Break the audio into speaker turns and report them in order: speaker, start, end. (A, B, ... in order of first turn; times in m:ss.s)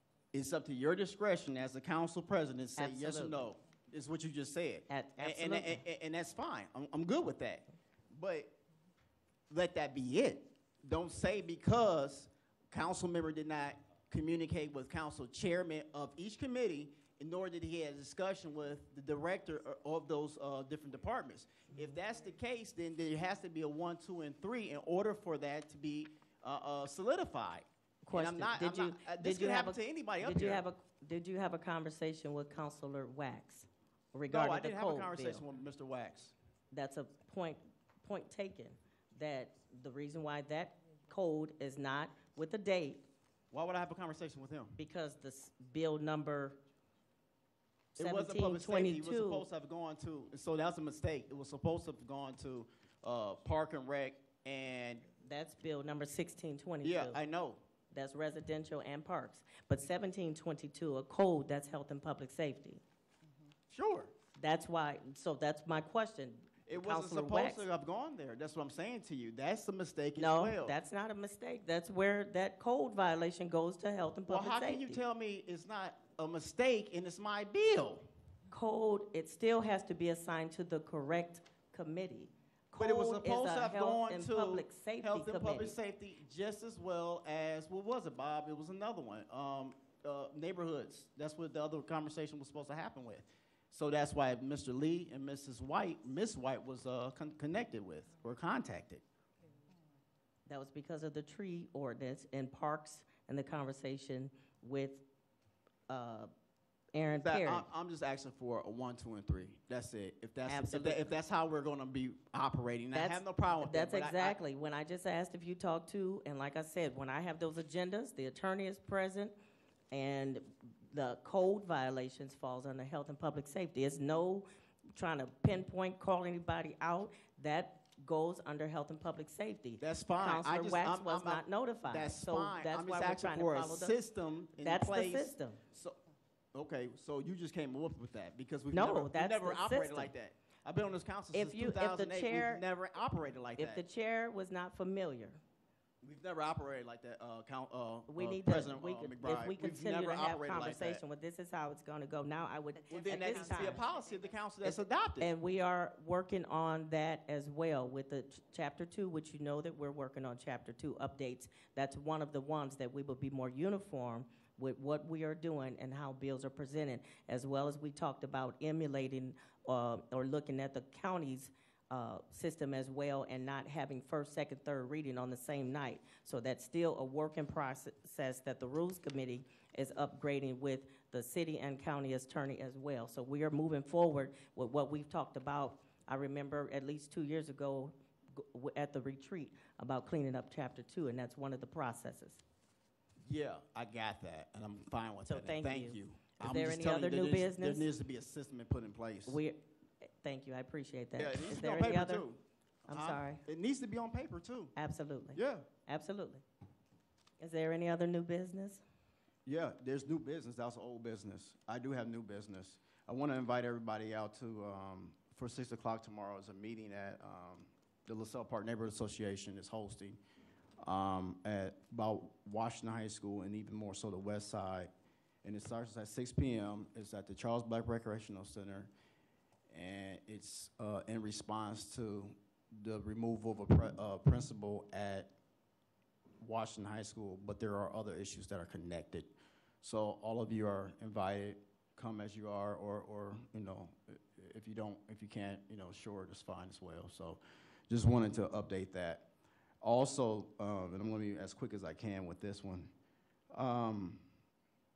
0:00.3-0:08.6 A
0:02.8-0:03.4 B
0:04.9-0:05.8 B
0:09.5-0:30.6 A
0:28.1-0:35.5 B
0:34.3-0:36.4 A
0:36.7-0:43.1 B
0:43.5-0:44.8 A
0:44.8-0:46.6 B
0:48.0-0:49.4 B
0:48.0-0:55.1 A
0:55.2-0:57.2 B
0:56.8-0:57.6 A
0:57.9-1:02.8 B
1:03.7-1:04.1 A
1:04.4-1:07.7 B
1:06.7-1:10.7 A
1:10.2-1:15.0 B
1:14.3-1:18.1 A
1:18.5-1:25.8 B
1:22.8-1:39.0 A
1:40.5-1:45.0 B
1:45.9-1:46.3 B
1:46.9-1:47.7 B
1:47.2-1:54.4 A
1:50.5-1:51.0 B
1:52.9-1:59.4 B
1:59.9-2:14.0 B
2:09.8-2:16.0 A
2:14.6-2:15.6 B
2:16.5-2:23.8 A
2:18.7-2:20.1 B
2:21.3-2:22.6 B
2:23.6-2:25.4 B
2:26.0-2:31.0 A
2:28.1-2:34.0 B
2:32.9-2:35.3 A
2:34.6-3:12.4 B
3:13.2-3:19.4 A
3:15.3-3:17.9 B
3:19.3-3:22.2 B
3:21.2-3:24.7 A
3:22.9-3:23.4 B
3:24.8-3:26.4 B
3:25.3-3:25.7 A
3:27.4-3:28.8 B
3:29.5-3:40.2 A
3:40.8-3:44.9 A
3:45.4-3:48.9 A
3:49.7-3:55.3 A
3:56.4-4:09.3 A
4:09.8-4:12.9 A
4:13.5-4:14.3 A